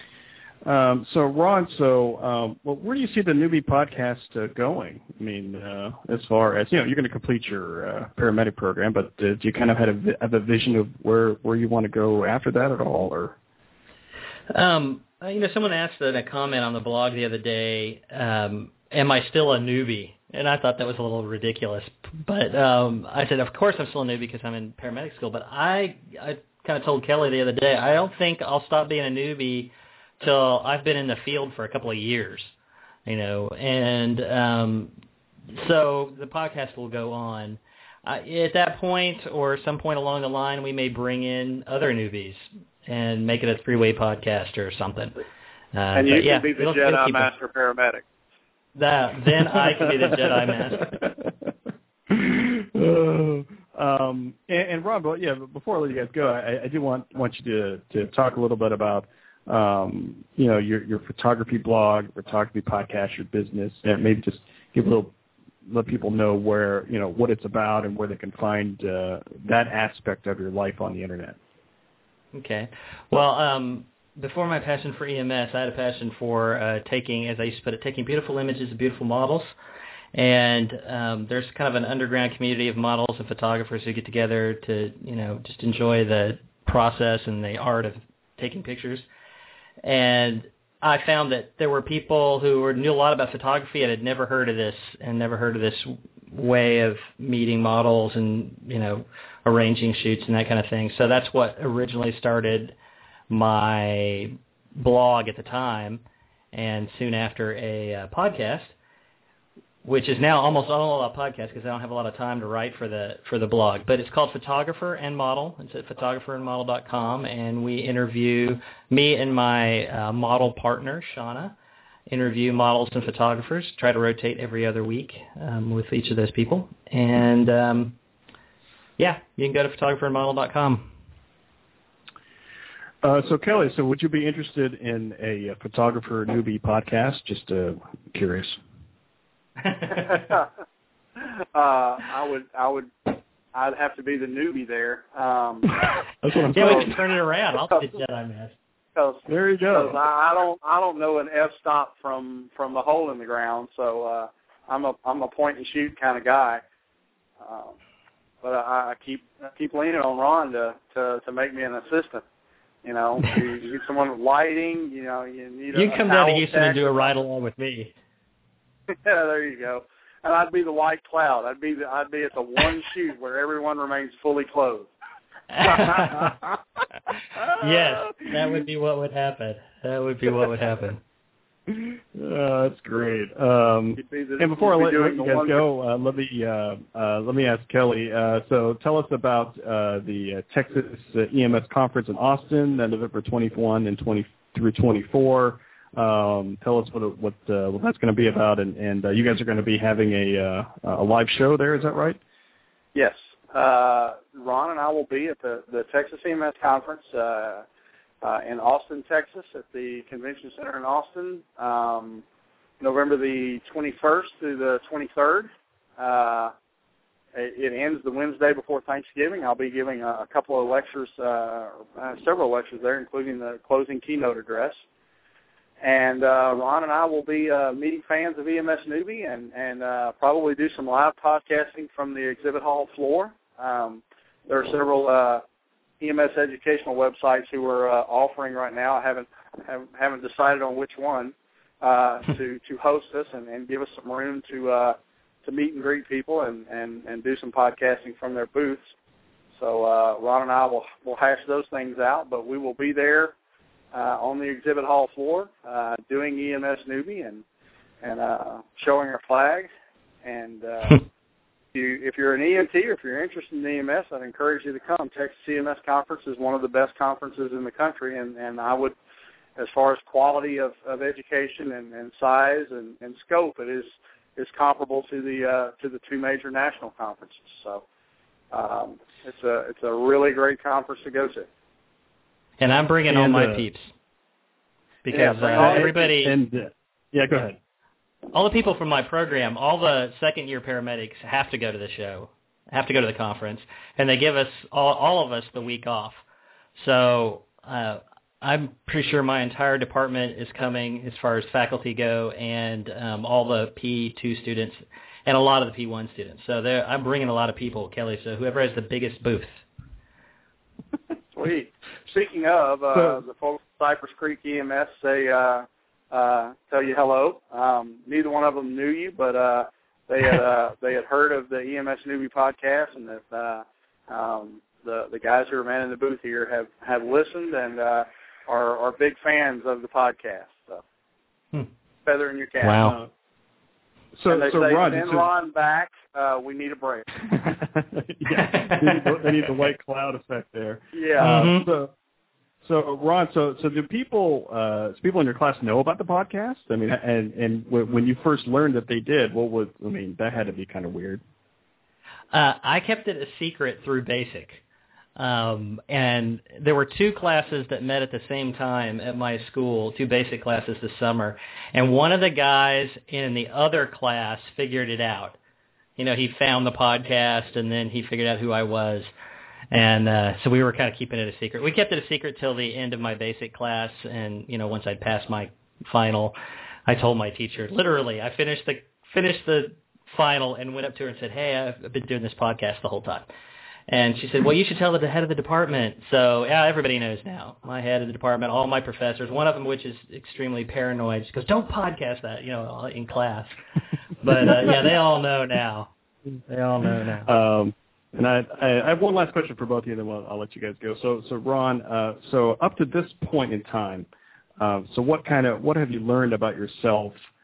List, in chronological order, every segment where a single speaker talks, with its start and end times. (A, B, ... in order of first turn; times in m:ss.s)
0:00.6-0:13.4 A
0:14.5-0:32.5 B
0:33.0-0:34.9 B
0:35.5-0:45.2 B
0:45.7-0:47.3 B
0:45.9-0:48.0 C
0:48.7-0:50.9 B
0:49.8-0:51.5 A
0:52.1-1:05.1 A
1:05.6-1:11.4 A
1:12.3-1:19.5 B
1:20.1-1:29.0 B
1:29.8-1:42.7 B
1:43.3-1:46.0 B
1:46.5-1:48.7 B
1:49.8-2:01.5 B
2:02.1-2:08.0 B
2:09.0-2:10.9 B
2:13.0-2:18.6 A
2:19.7-2:20.2 B
2:20.1-2:20.4 C
2:21.2-2:25.7 C
2:26.2-2:26.9 A
2:26.5-2:28.5 B
2:26.5-2:26.9 C
2:28.9-2:36.6 C
2:29.3-2:30.0 A
2:37.4-2:37.8 C
2:38.4-2:42.2 C
2:42.8-2:47.2 C
2:45.7-2:47.9 B
2:48.9-2:54.9 C
2:55.5-2:56.3 B
2:57.4-2:58.6 A
2:57.5-3:01.0 B
3:01.7-3:22.2 A
3:04.0-3:05.6 C
3:22.9-3:27.6 C
3:28.2-3:32.2 C
3:32.8-3:36.5 C
3:37.3-3:44.8 C
3:45.8-3:55.4 C
3:56.0-4:08.8 C
4:09.5-4:13.3 C
4:13.9-4:17.4 C
4:18.0-4:19.7 C
4:20.2-4:21.0 C
4:21.7-4:28.9 C
4:29.6-4:37.8 C
4:38.5-4:41.5 C
4:42.6-4:43.9 B
4:43.1-4:43.6 A
4:45.0-4:46.3 B
4:45.1-4:46.0 C
4:45.5-4:47.6 A
4:48.3-4:56.2 B
4:56.8-5:09.6 B
5:11.3-5:30.8 C
5:32.0-5:33.0 C
5:32.6-5:33.0 B
5:34.2-5:35.2 A
5:34.3-5:37.1 C
5:37.3-5:41.9 A
5:38.4-5:39.0 B
5:40.9-5:41.3 C
5:41.2-5:41.7 B
5:42.6-5:51.2 A
5:52.3-5:54.6 B
5:55.2-6:05.4 B
6:06.0-6:09.1 B
6:09.7-6:16.4 B
6:16.9-6:23.3 B
6:23.9-6:33.6 B
6:34.2-6:35.9 B
6:36.5-6:37.3 B
6:37.2-6:44.1 A
6:44.6-6:47.1 A